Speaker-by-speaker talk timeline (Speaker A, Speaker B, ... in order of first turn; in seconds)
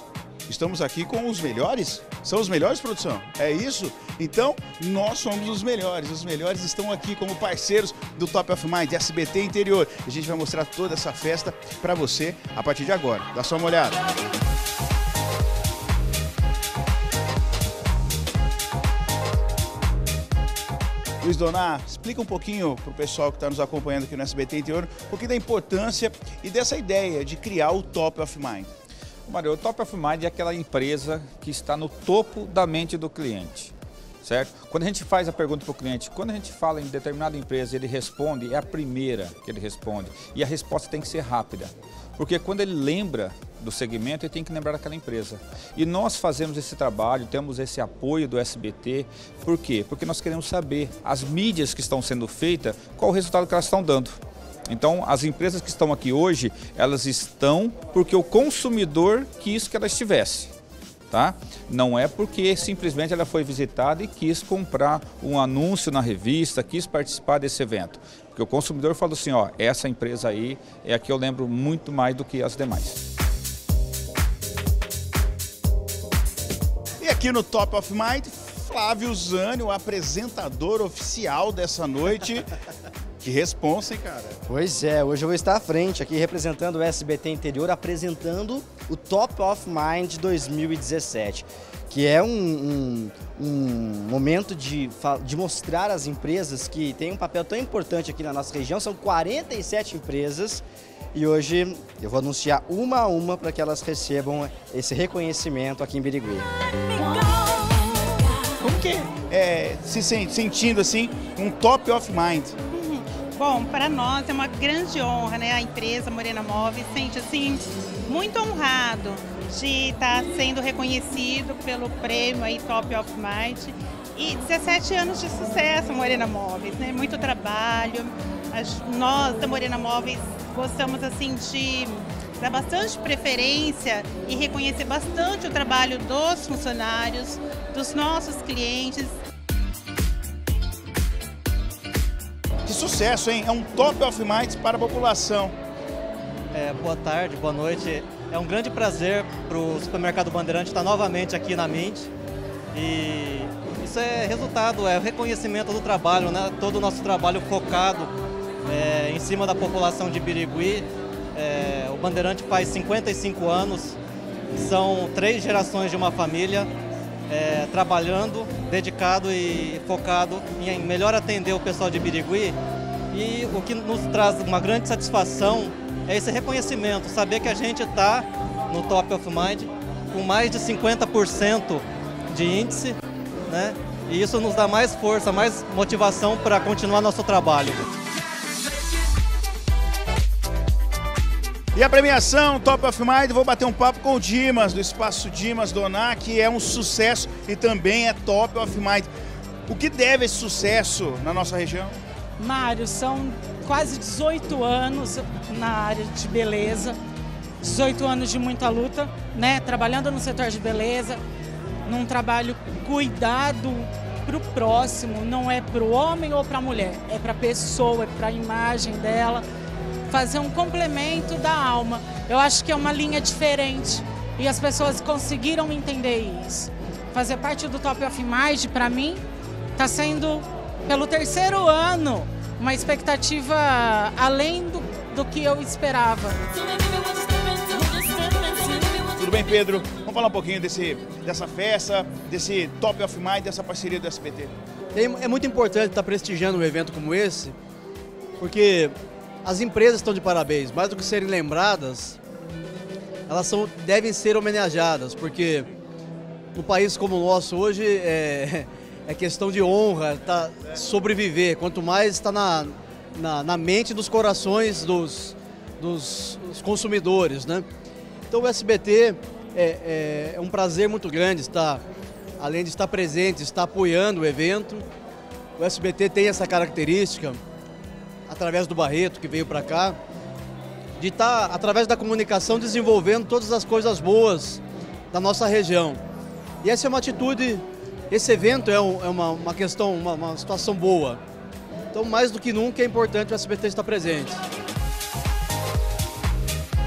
Speaker A: 0.5-14.0, 21.2-28.7, 77.0-82.5, 83.2-84.4, 108.6-112.6, 142.7-145.5, 191.7-199.1, 199.7-201.9, 239.0-244.5
Speaker B: 29.3-60.5, 61.1-73.0
Speaker C: 84.5-106.5
Speaker D: 112.7-139.1
Speaker E: 146.5-152.1, 152.7-164.0, 164.5-166.7, 167.3-172.6, 173.1-187.9
Speaker F: 202.4-207.0, 207.6-211.2, 211.8-219.4, 220.1-229.2, 229.8-238.9
Speaker G: 244.9-247.5, 248.4-252.2, 253.3-255.7, 256.5-267.6, 268.3-271.8, 272.4-274.9, 275.6-277.4, 278.3-280.0, 281.0-286.0, 286.6-291.2, 291.9-294.4